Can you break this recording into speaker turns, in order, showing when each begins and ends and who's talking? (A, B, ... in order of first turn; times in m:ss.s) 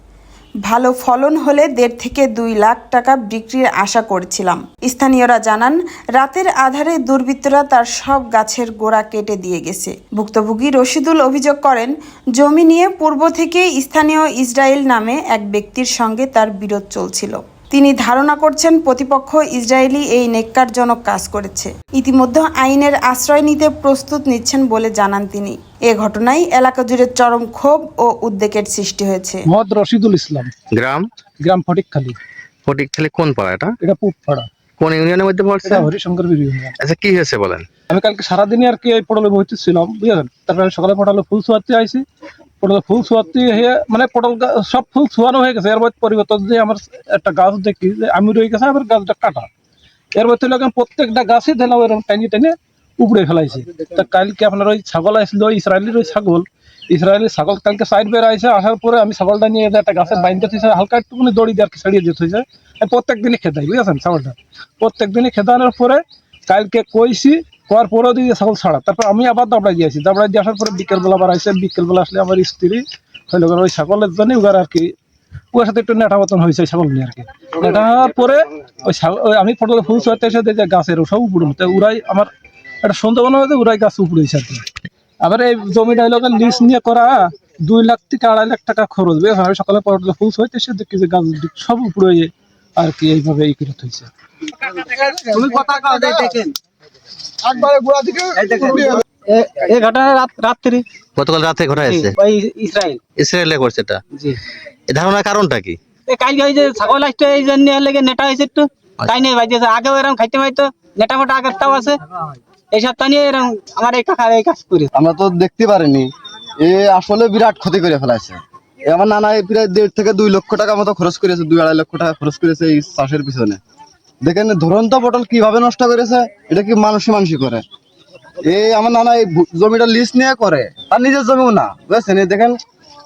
0:00.6-0:29.4 A
0:29.5-0:30.5 B
0:30.7-0:31.1 C
0:31.4-0:32.2 B
0:32.6-0:33.8 C
0:33.8-0:34.5 B
0:34.8-0:35.9 C
0:35.6-0:36.8 B
0:36.8-0:37.7 C
0:37.9-0:42.0 B
0:42.6-0:49.5 B
0:50.1-1:14.9 B
1:15.5-1:22.3 B
1:22.8-1:24.6 B
1:25.2-1:34.1 B
1:34.8-1:36.5 D
1:37.5-1:40.8 D
1:41.2-1:42.1 C
1:41.9-1:43.0 D
1:43.2-1:44.0 C
1:44.1-1:44.4 D
1:44.9-1:45.8 C
1:46.1-1:54.9 D
1:54.9-2:03.6 E
2:04.2-2:07.6 E
2:08.4-2:12.6 E